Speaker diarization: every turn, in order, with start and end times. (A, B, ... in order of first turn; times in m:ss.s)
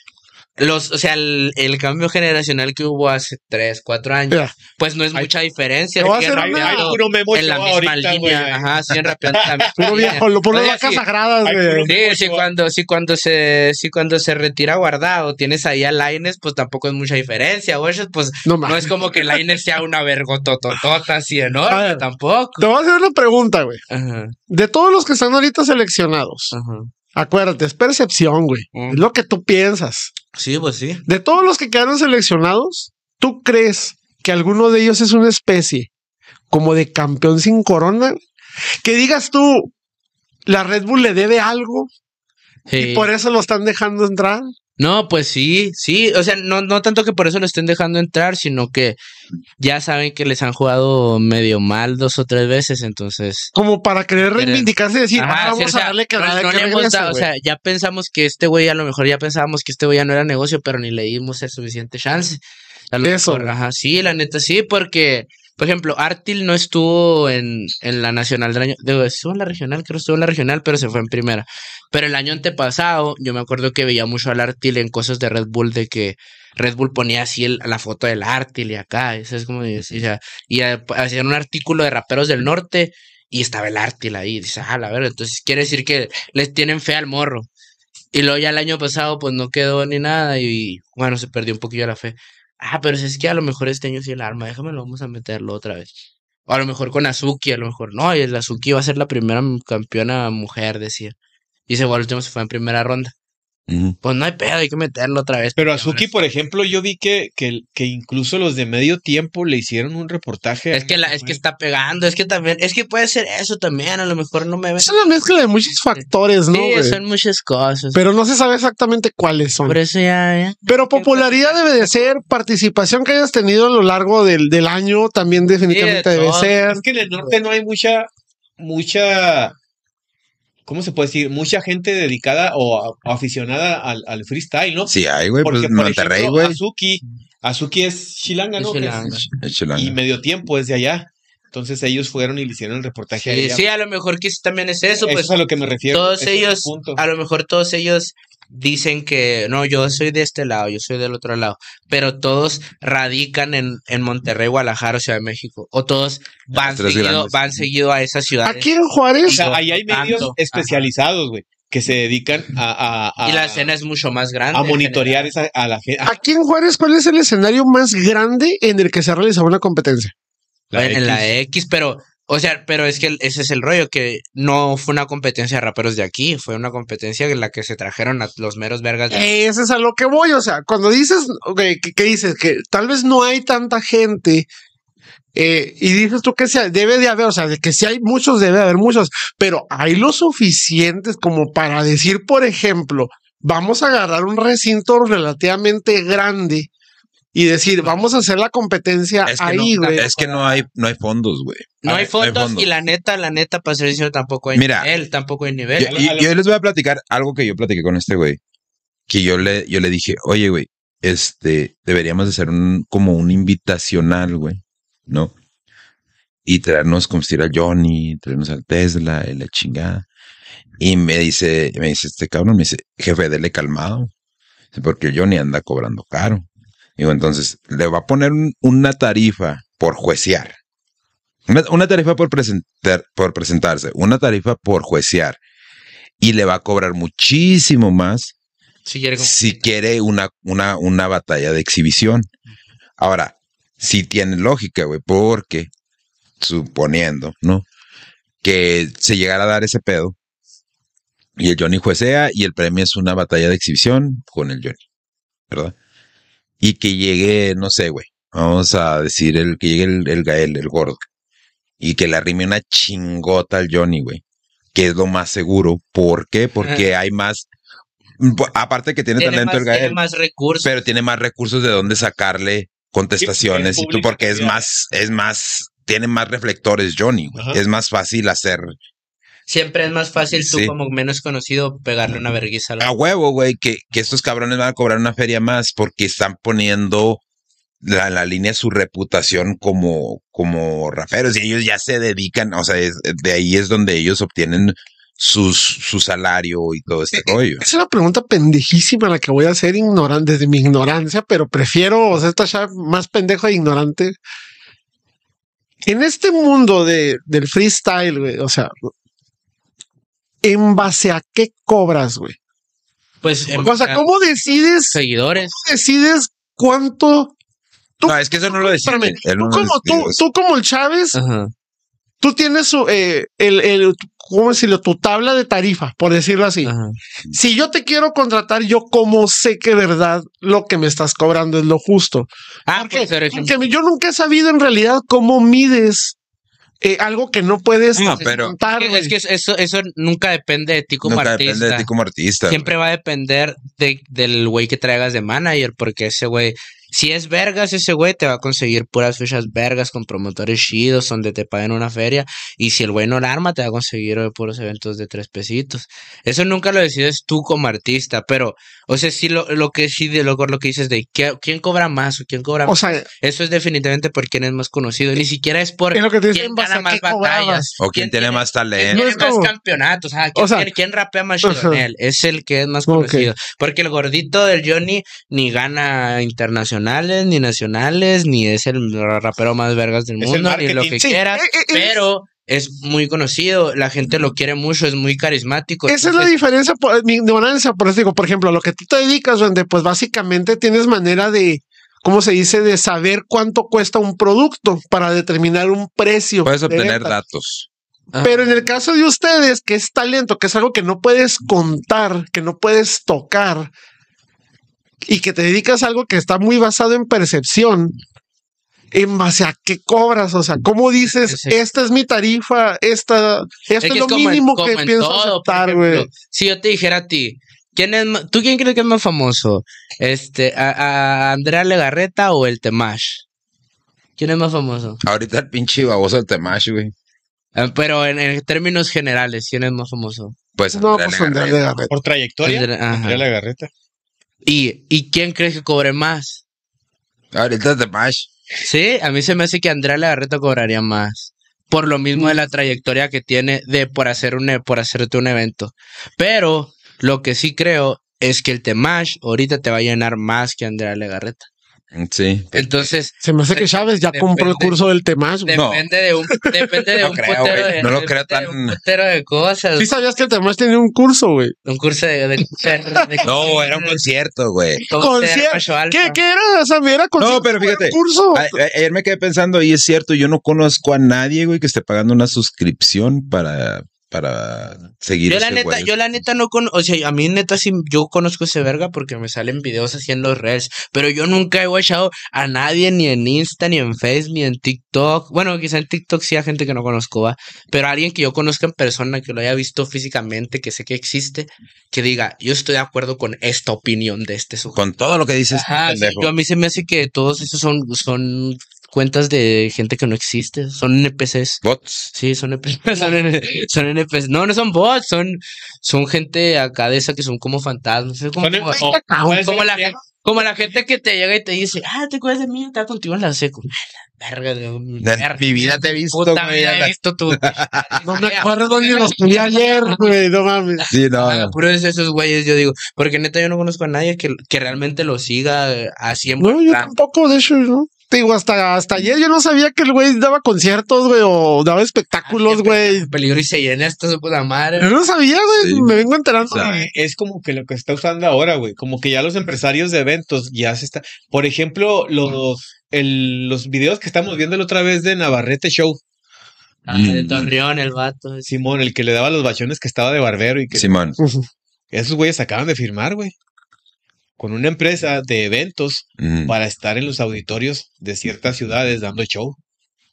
0:00.6-0:11.0 A
0:06.0-0:06.9 B
0:06.3-0:12.5 C
0:09.8-0:11.9 B
0:11.8-0:22.6 A
0:18.4-0:19.2 B
0:21.7-0:22.0 B
0:22.6-0:23.8 B
0:23.9-0:24.3 A
0:24.5-0:26.5 B
0:26.5-0:26.9 A
0:27.1-0:30.1 B
0:28.7-0:29.0 A
0:30.3-0:31.0 A
0:31.1-0:35.9 B
0:36.5-0:38.2 B
0:38.8-0:39.7 B
0:40.4-0:41.9 B
0:42.7-0:43.1 A
0:42.8-0:44.5 B
0:44.8-0:49.0 A
0:49.6-0:53.5 A
0:53.5-0:57.3 B
0:54.3-1:02.4 A
1:02.9-1:27.5 A
1:03.0-1:03.5 B
1:19.8-1:20.0 D
1:28.1-1:35.9 A
1:36.5-1:41.2 A
1:41.7-1:43.1 A
1:43.7-1:44.0 D
1:44.0-1:46.1 A
1:45.6-1:51.4 C
1:50.7-1:54.9 A
1:54.8-1:57.0 B
1:56.0-1:58.0 A
1:57.9-1:59.8 B
1:59.6-2:02.2 A
2:00.7-2:06.8 B
2:05.6-2:06.6 A
2:06.7-2:08.1 C
2:08.6-2:09.5 C
2:10.6-2:19.2 C
2:14.9-2:16.6 D
2:18.6-2:19.2 A
2:19.3-2:20.0 D
2:19.7-2:23.6 C
2:23.2-2:38.7 A
2:25.0-2:27.0 C
2:36.5-2:37.6 D
2:38.4-2:39.5 B
2:39.2-2:40.8 A
2:39.3-2:43.7 C
2:43.2-2:45.3 A
2:44.5-2:46.2 C
2:46.0-2:50.1 B
2:50.7-2:51.3 C
2:50.7-2:59.2 A
2:59.1-3:04.5 B
3:05.3-3:16.7 B
3:17.3-3:20.0 B
3:19.2-3:22.7 D
3:19.5-3:20.6 A
3:21.8-3:26.0 A
3:24.5-3:24.9 D
3:25.8-3:28.4 D
3:25.8-3:26.3 C
3:29.1-3:35.3 D
3:36.4-3:40.0 D
3:40.8-3:44.1 D
3:44.7-3:46.4 D
3:47.0-3:50.6 D
3:51.5-3:55.4 D
3:56.2-3:58.3 D
3:58.8-3:59.6 A
3:59.2-4:02.3 D
4:03.0-4:05.7 D
4:06.4-4:07.6 D
4:08.4-4:10.2 D
4:11.4-4:14.8 D
4:15.5-4:15.7 D
4:16.6-4:21.0 D
4:21.8-4:24.2 D
4:24.7-4:27.4 D
4:26.6-4:26.9 A
4:28.2-4:30.0 D
4:29.2-4:30.7 A
4:30.6-4:38.7 D
4:33.2-4:34.6 C
4:37.3-4:37.6 C
4:39.5-4:42.9 A
4:40.3-4:40.7 D
4:42.8-4:47.2 D
4:47.8-4:57.6 D
4:57.6-5:04.2 B
5:05.8-5:08.7 B
5:10.4-5:12.4 B
5:13.2-5:14.0 A
5:13.5-5:17.3 B
5:14.9-5:15.6 A
5:18.0-5:21.2 B
5:18.0-5:20.2 D
5:21.1-5:21.5 A
5:22.2-5:26.7 B
5:26.6-5:27.0 A
5:27.3-5:36.2 B
5:32.6-5:33.5 A
5:36.8-5:39.1 B
5:38.0-5:41.9 A
5:38.0-5:38.6 D
5:41.0-5:42.7 D
5:42.5-6:26.3 A
6:02.7-6:03.1 B
6:05.9-6:07.7 B
6:07.8-6:09.2 D
6:08.9-6:09.5 B
6:10.3-6:10.7 B
6:11.4-6:11.8 B
6:12.9-6:13.3 B
6:20.2-6:21.1 C
6:21.0-6:22.0 B
6:25.9-6:37.2 B
6:36.4-6:37.7 D
6:38.1-6:38.5 A
6:38.2-6:43.7 B
6:45.1-6:48.0 B
6:48.9-6:56.1 B
6:51.2-6:51.6 A
6:53.8-7:03.2 A
7:04.2-7:05.0 A
7:05.0-7:06.9 D
7:07.5-7:10.4 A
7:10.6-7:11.6 D
7:10.7-7:11.9 B
7:11.9-7:13.7 C
7:12.4-7:13.2 A
7:14.4-7:16.4 A
7:17.3-7:18.3 D
7:18.6-7:31.5 A
7:31.9-7:32.9 D
7:32.5-7:34.8 A
7:33.2-7:35.6 B
7:35.4-7:39.9 A
7:35.5-7:35.8 D
7:37.0-7:38.8 D
7:39.8-7:41.5 B
7:41.6-7:44.0 A
7:43.2-7:44.8 D
7:44.9-7:46.2 A
7:44.9-7:48.6 B
7:47.2-7:55.9 D
7:55.2-8:14.8 A
8:14.7-8:16.3 D
8:15.5-8:28.9 A
8:21.6-8:22.1 D
8:28.4-8:30.0 C
8:28.7-8:29.7 B
8:29.4-8:40.2 A
8:35.0-8:37.8 D
8:38.0-8:40.8 B
8:40.9-8:41.5 D
8:41.1-8:46.9 A
8:46.4-8:53.1 B
8:52.2-8:54.9 A
8:54.8-8:56.9 B
8:55.6-8:55.9 D
8:56.5-8:56.7 D
8:56.6-9:06.0 C
9:06.9-9:08.5 A
9:06.9-9:07.5 D
9:08.4-9:11.1 C
9:10.7-9:11.2 D
9:11.2-9:11.4 B
9:11.9-9:13.3 C
9:14.4-9:19.6 C
9:16.2-9:16.5 D